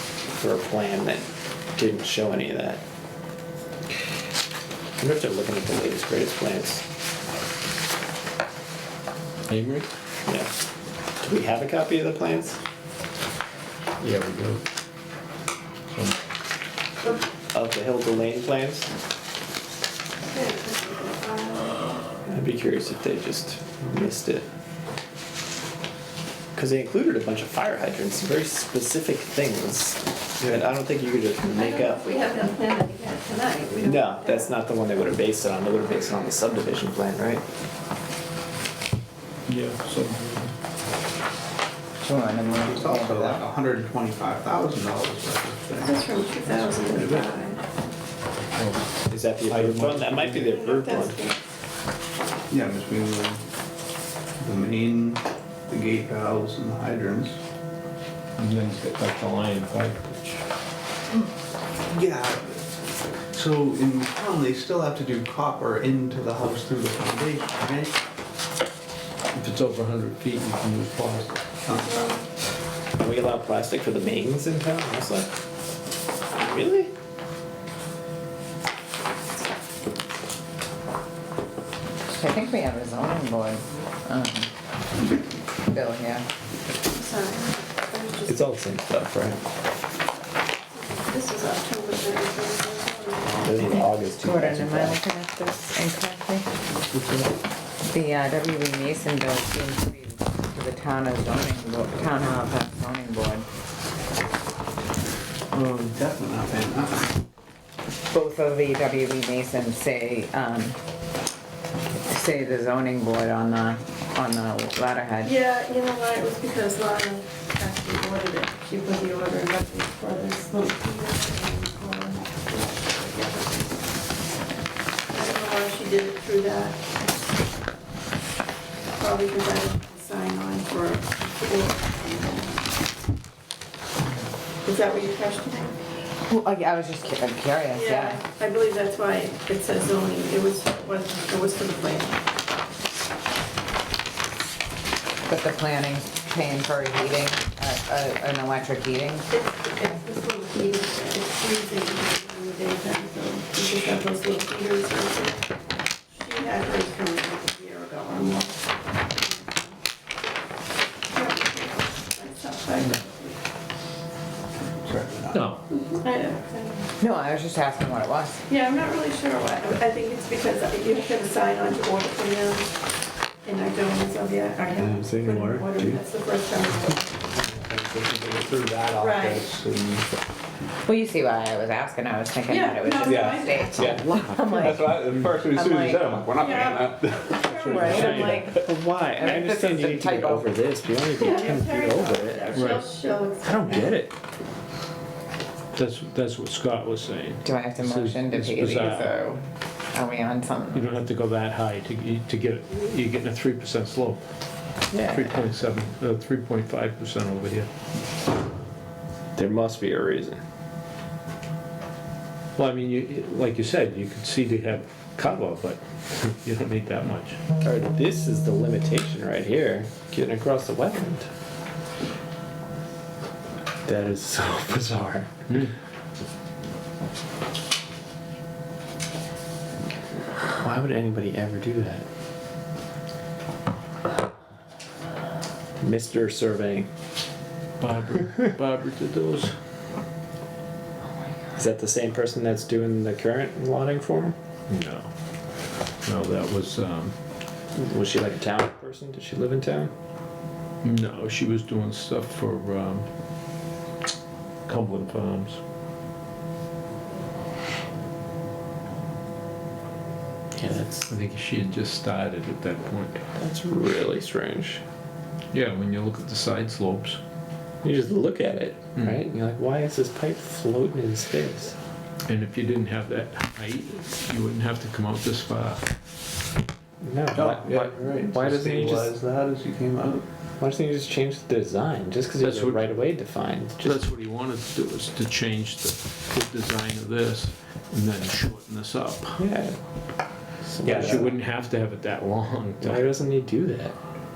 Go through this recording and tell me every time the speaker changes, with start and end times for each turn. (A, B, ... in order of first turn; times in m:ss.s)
0:00.3-0:02.8 A
0:05.0-0:06.8 A
0:09.5-0:09.9 B
0:10.2-0:10.5 A
0:11.2-0:12.6 A
0:14.0-0:14.6 B
0:17.5-0:18.9 A
0:20.2-0:22.2 C
0:22.3-0:24.4 A
0:26.6-0:32.0 A
0:31.5-0:34.4 C
0:33.8-0:37.4 A
0:39.5-0:40.5 B
0:42.0-0:43.4 D
0:42.6-0:47.2 E
0:45.8-0:47.6 C
0:48.6-0:50.5 B
0:49.1-0:51.2 A
0:50.5-0:51.4 C
0:52.5-0:53.4 E
0:54.4-0:57.4 E
0:58.4-1:00.4 B
1:01.9-1:02.6 E
1:03.3-1:08.0 E
1:09.3-1:11.4 B
1:11.6-1:12.1 E
1:11.9-1:12.2 C
1:13.0-1:15.3 A
1:16.3-1:16.9 A
1:22.1-1:24.5 D
1:25.7-1:26.2 D
1:26.9-1:28.5 C
1:28.3-1:29.4 A
1:30.7-1:33.5 C
1:33.2-1:35.0 A
1:34.2-1:36.4 D
1:37.8-1:43.4 D
1:45.5-1:46.0 B
1:45.9-1:47.1 E
1:48.1-1:50.8 D
1:52.0-1:55.3 D
1:55.2-2:03.7 C
2:05.1-2:07.0 C
2:09.0-2:12.7 C
2:14.6-2:15.8 C
2:16.3-2:18.2 D
2:17.7-2:22.2 C
2:25.2-2:29.3 D
2:29.3-2:35.5 C
2:36.1-2:39.8 C
2:41.1-2:43.4 C
2:44.8-2:45.4 E
2:45.3-2:45.6 B
2:45.7-2:46.9 C
2:47.0-2:48.4 D
2:48.5-2:52.7 C
2:53.4-2:57.3 C
2:54.8-2:56.0 A
2:57.8-3:00.0 E
2:59.0-2:59.5 C
3:00.8-3:06.2 D
3:02.5-3:04.0 C
3:03.0-3:08.1 E
3:06.3-3:08.4 C
3:07.4-3:08.5 B
3:07.5-3:08.6 D
3:08.5-3:12.8 A
3:09.1-3:10.5 D
3:11.1-3:14.0 C
3:12.5-3:12.8 B
3:13.4-3:14.2 A
3:15.7-3:19.3 B
3:17.4-3:19.4 D
3:19.9-3:20.9 D
3:20.7-3:24.2 B
3:25.0-3:27.7 B
3:29.4-3:30.4 A
3:32.6-3:37.4 B
3:37.6-3:41.3 A
3:43.8-3:45.3 A
3:50.5-3:52.0 A
3:55.8-3:56.9 A
3:57.8-3:59.5 B
4:01.5-4:04.3 A
4:04.7-4:05.1 B
4:06.0-4:07.1 B
4:07.8-4:09.9 A
4:10.8-4:13.0 B
4:14.7-4:15.6 B
4:20.5-4:21.1 A
4:21.1-4:23.2 B
4:23.4-4:24.8 A
4:25.5-4:27.2 B
4:27.8-4:31.7 A
4:32.3-4:35.8 B
4:37.0-4:39.1 A
4:37.3-4:40.2 E
4:38.4-4:38.7 B
4:40.6-4:44.0 A
4:42.4-4:42.9 B
4:43.8-4:49.4 B
4:49.4-4:49.8 A
4:50.6-4:51.3 A
4:50.8-4:53.0 B
4:52.8-4:53.9 A